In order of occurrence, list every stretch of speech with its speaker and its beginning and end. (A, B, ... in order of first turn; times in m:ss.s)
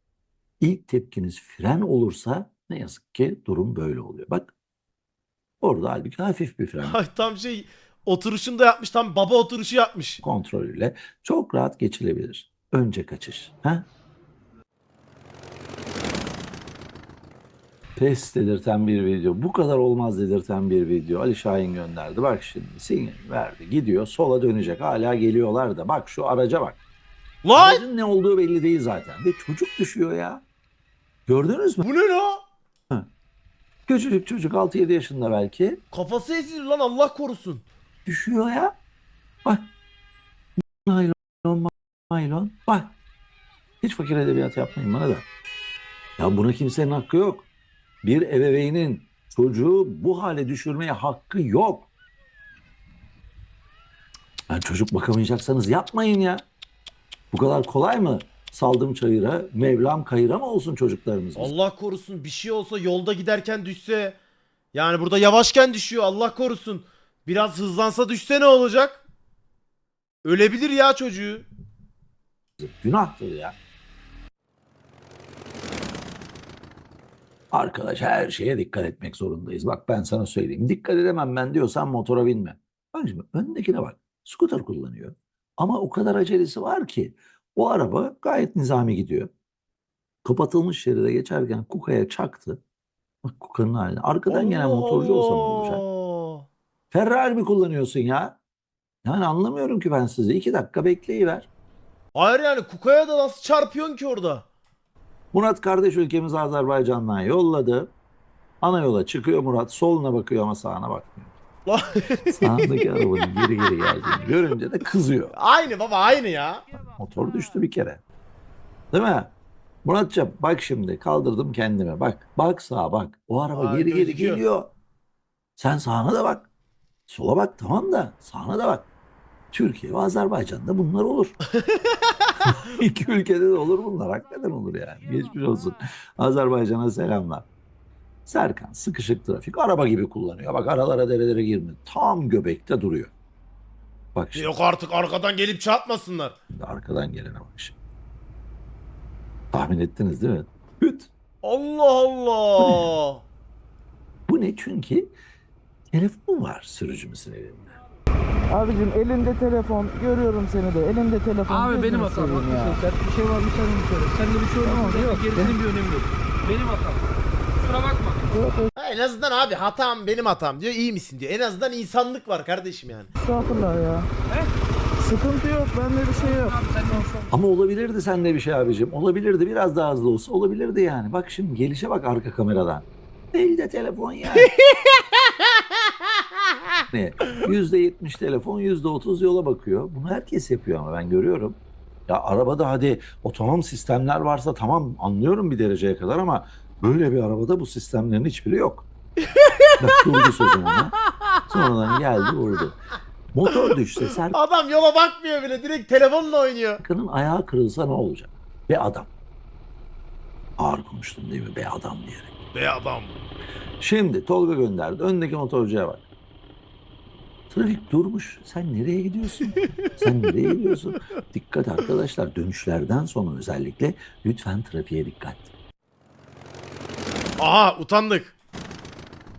0:00.6-0:04.5 A
0:05.6-0:07.0 A
0:06.8-0:10.2 B
0:10.2-0:13.9 A
0:18.0-0:26.8 A
0:27.4-0:27.8 B
0:27.6-0:30.4 A
0:31.3-0:31.8 A
0:31.8-0:32.4 B
0:33.9-0:35.8 A
0:35.9-0:37.6 B
0:38.0-0:38.8 A
0:39.4-0:39.7 A
0:40.6-0:43.0 A
0:43.8-0:45.2 A
0:46.2-0:47.5 A
0:48.0-0:51.9 A
0:54.5-0:56.5 A
0:57.3-1:01.5 A
1:01.4-1:04.2 B
1:04.7-1:09.0 B
1:10.2-1:11.5 B
1:12.6-1:13.6 A
1:17.5-1:29.3 A
1:30.2-1:32.6 A
1:33.2-1:35.8 A
1:34.3-1:36.5 B
1:36.9-1:38.4 A
1:39.0-1:41.5 A
1:42.1-1:44.4 B
1:45.3-1:47.9 A
1:48.6-1:51.4 A
1:51.7-1:53.5 B
1:52.4-1:55.3 A
1:55.3-1:56.6 B
1:57.0-1:58.0 A
1:58.9-2:04.7 A
2:03.5-2:04.4 B
2:05.6-2:06.5 A
2:07.1-2:08.9 A
2:09.5-2:11.4 A
2:11.6-2:12.5 B
2:12.4-2:17.5 A
2:18.2-2:23.1 A
2:24.1-2:24.5 A
2:24.4-2:26.4 B
2:26.5-2:27.8 A
2:29.5-2:31.1 A
2:31.4-2:33.2 B
2:32.6-2:32.9 A
2:34.3-2:35.1 A
2:35.9-2:37.7 A
2:38.5-2:42.8 C
2:41.5-2:48.4 D
2:44.6-2:45.6 C
2:48.3-2:48.7 C
2:48.8-2:53.1 B
2:53.2-2:54.1 C
2:55.0-2:57.0 C
2:56.2-2:57.3 D
2:57.3-3:04.5 A
3:04.3-3:07.4 B
3:06.9-3:18.9 A
3:19.2-3:21.4 B
3:19.8-3:20.9 A
3:21.5-3:22.8 A
3:23.3-3:24.4 A
3:23.5-3:26.8 B
3:26.8-3:29.1 A
3:30.6-3:32.3 A
3:32.5-3:33.2 B
3:33.8-3:36.0 A
3:37.5-3:45.5 A
3:39.5-3:39.9 B
3:47.4-3:48.3 B